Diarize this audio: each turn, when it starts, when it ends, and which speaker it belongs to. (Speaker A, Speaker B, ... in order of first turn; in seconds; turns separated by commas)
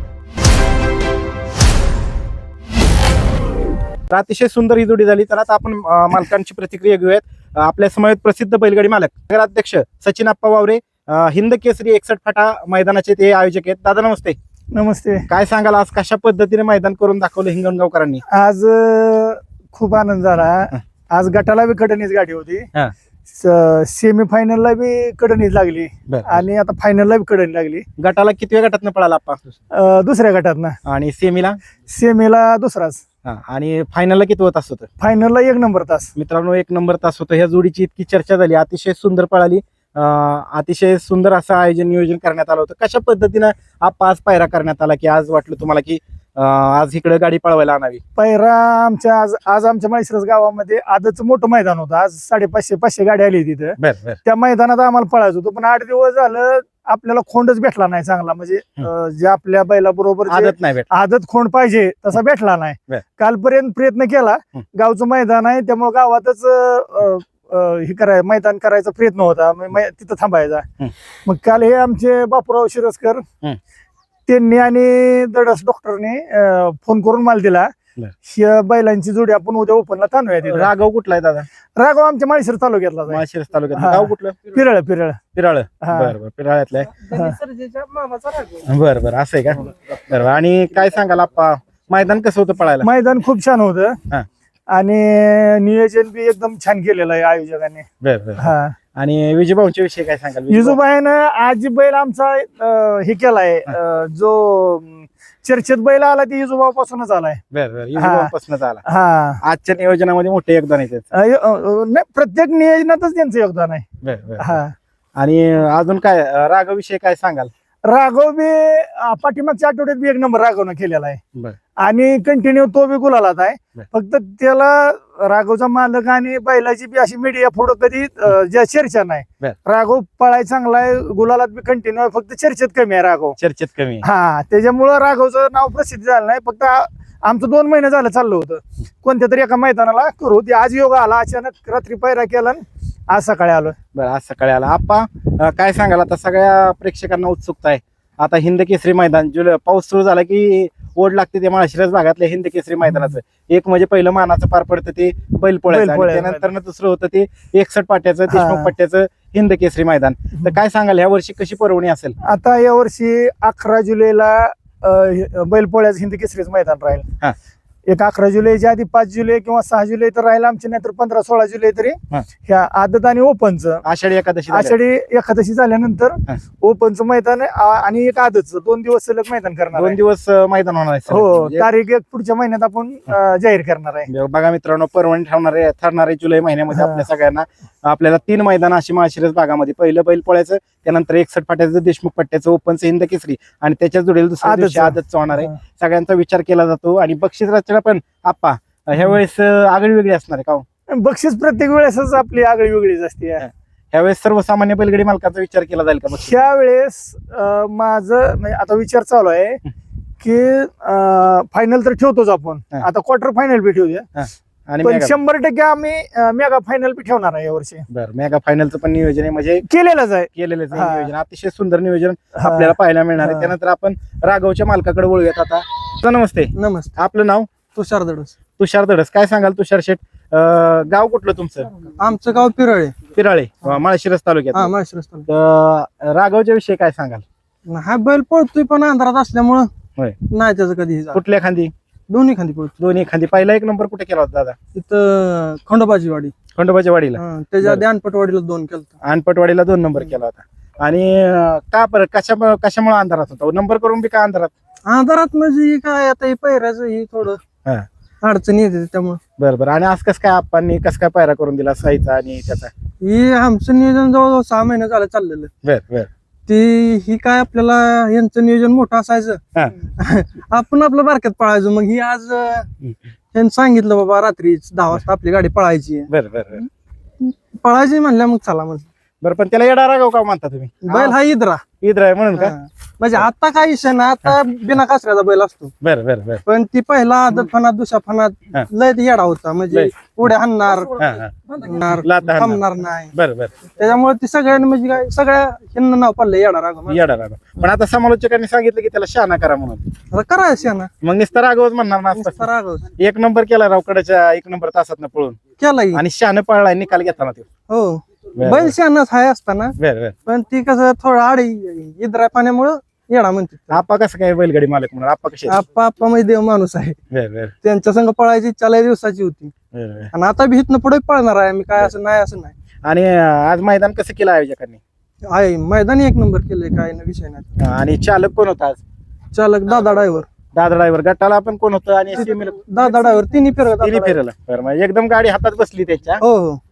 Speaker A: 4.1-14.3, Speaker B: 14.7-15.3, Speaker A: 15.3-18.2, Speaker B: 18.3-22.6, Speaker B: 23.4-27.8, Speaker A: 26.1-26.4, Speaker A: 28.0-29.4, Speaker B: 29.7-30.8, Speaker A: 30.8-31.6, Speaker B: 31.9-33.0, Speaker A: 33.2-34.9, Speaker B: 35.0-36.1, Speaker A: 36.1-48.0, Speaker B: 48.1-70.7, Speaker A: 53.8-54.2, Speaker A: 60.3-60.9, Speaker B: 71.2-73.2, Speaker B: 74.3-77.7, Speaker B: 78.2-80.7, Speaker A: 80.5-81.5, Speaker B: 81.8-83.2, Speaker A: 83.1-84.5, Speaker B: 83.7-85.2, Speaker A: 85.3-87.0, Speaker B: 85.8-86.1, Speaker C: 86.9-88.7, Speaker A: 88.7-92.9, Speaker B: 92.8-94.0, Speaker B: 94.7-97.8, Speaker A: 98.0-100.8, Speaker B: 98.4-98.7, Speaker B: 100.5-107.4, Speaker A: 107.5-108.8, Speaker B: 108.0-108.3, Speaker B: 108.8-109.4, Speaker A: 109.4-111.0, Speaker B: 111.1-113.8, Speaker A: 114.0-114.5, Speaker B: 114.4-114.7, Speaker A: 115.2-117.5, Speaker B: 117.8-121.2, Speaker B: 121.8-133.4, Speaker A: 133.4-134.0, Speaker B: 134.0-143.8, Speaker A: 143.9-162.2, Speaker B: 155.7-156.5, Speaker B: 158.3-158.7, Speaker B: 162.2-167.0, Speaker B: 167.9-173.8, Speaker A: 173.8-174.7, Speaker B: 174.5-180.0, Speaker A: 179.7-181.7, Speaker B: 181.1-184.1, Speaker A: 184.1-200.6, Speaker B: 186.7-187.0, Speaker B: 194.4-195.5, Speaker B: 200.9-203.4, Speaker A: 203.4-206.4, Speaker B: 206.2-209.6, Speaker B: 210.2-214.1, Speaker A: 214.2-215.1, Speaker B: 214.8-217.8, Speaker A: 217.9-219.6, Speaker B: 219.6-221.1, Speaker A: 220.3-227.5, Speaker B: 222.4-223.5, Speaker C: 226.6-226.9, Speaker C: 227.7-228.3, Speaker A: 228.6-231.7, Speaker C: 232.0-232.9, Speaker A: 233.1-234.7, Speaker C: 234.5-235.3, Speaker A: 235.3-237.2, Speaker C: 237.7-239.7, Speaker C: 240.3-241.2, Speaker A: 241.1-241.7, Speaker C: 242.1-242.7, Speaker A: 242.8-244.6, Speaker C: 244.7-246.3, Speaker A: 246.5-247.8, Speaker C: 247.2-249.0, Speaker A: 249.0-254.5, Speaker C: 254.9-257.4, Speaker C: 258.2-259.2, Speaker A: 259.4-262.7, Speaker C: 263.0-265.5, Speaker A: 265.6-266.1, Speaker C: 266.5-269.4, Speaker C: 270.0-272.7, Speaker C: 273.3-276.1, Speaker A: 276.1-276.6, Speaker C: 277.2-278.9, Speaker A: 279.2-281.1, Speaker C: 280.8-281.6, Speaker A: 281.8-282.6, Speaker C: 282.4-285.7, Speaker A: 285.8-286.4, Speaker C: 286.4-291.0, Speaker A: 291.0-291.4, Speaker C: 291.6-293.1, Speaker A: 292.0-293.5, Speaker C: 293.7-297.0, Speaker A: 296.9-299.9, Speaker C: 300.1-300.9, Speaker A: 301.0-305.4, Speaker C: 302.1-302.9, Speaker C: 305.6-306.0, Speaker A: 305.9-307.4, Speaker C: 307.7-313.8, Speaker A: 308.4-308.7, Speaker A: 309.8-310.1, Speaker A: 313.7-315.6, Speaker C: 315.5-317.0, Speaker A: 317.1-317.5, Speaker C: 317.6-319.5, Speaker A: 319.7-320.1, Speaker C: 320.1-322.5, Speaker A: 322.8-324.8, Speaker C: 325.3-327.5, Speaker A: 327.6-328.8, Speaker C: 329.3-330.3, Speaker A: 330.5-333.1, Speaker C: 332.2-334.2, Speaker A: 333.8-336.2, Speaker C: 336.2-336.6